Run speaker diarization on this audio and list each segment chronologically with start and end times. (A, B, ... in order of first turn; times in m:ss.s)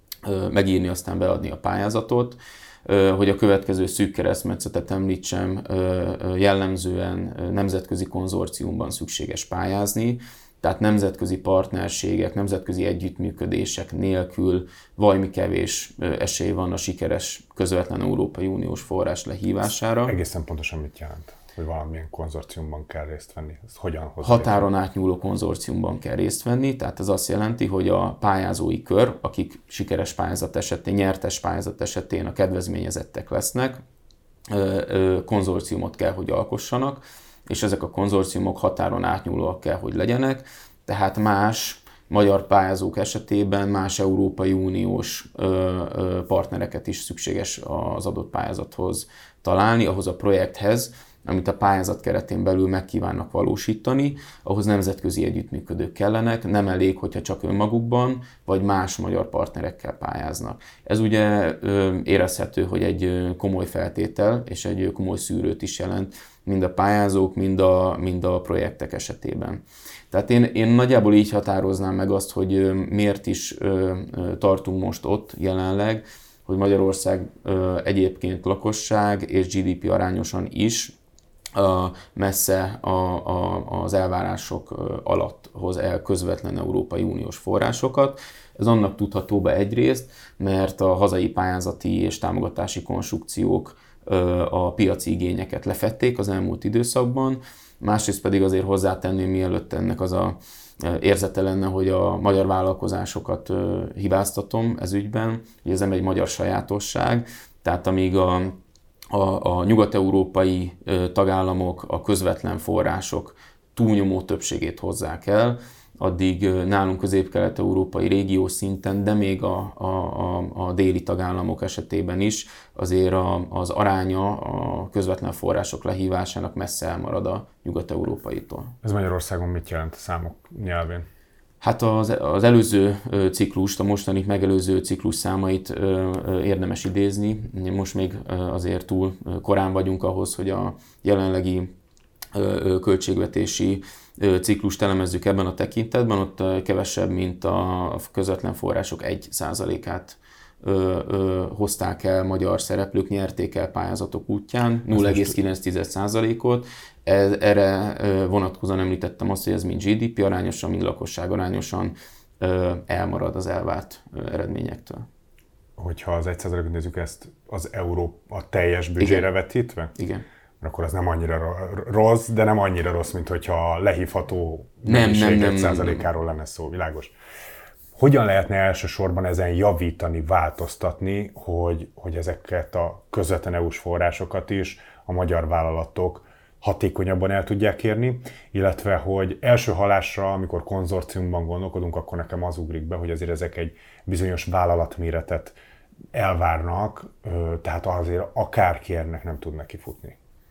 0:00.2-0:20.2 A
0:20.1-0:24.7 B
0:24.2-0:33.8 A
0:34.5-1:20.9 A
1:21.6-1:48.6 A
1:49.1-2:08.7 A
2:08.8-2:11.1 B
2:11.6-2:21.7 A
2:22.3-2:45.1 A
2:35.0-2:35.3 B
2:45.8-2:49.9 B
2:50.0-2:50.2 A
2:50.6-2:57.1 B
2:54.8-2:56.1 A
2:57.9-3:15.6 B
3:16.1-3:20.2 B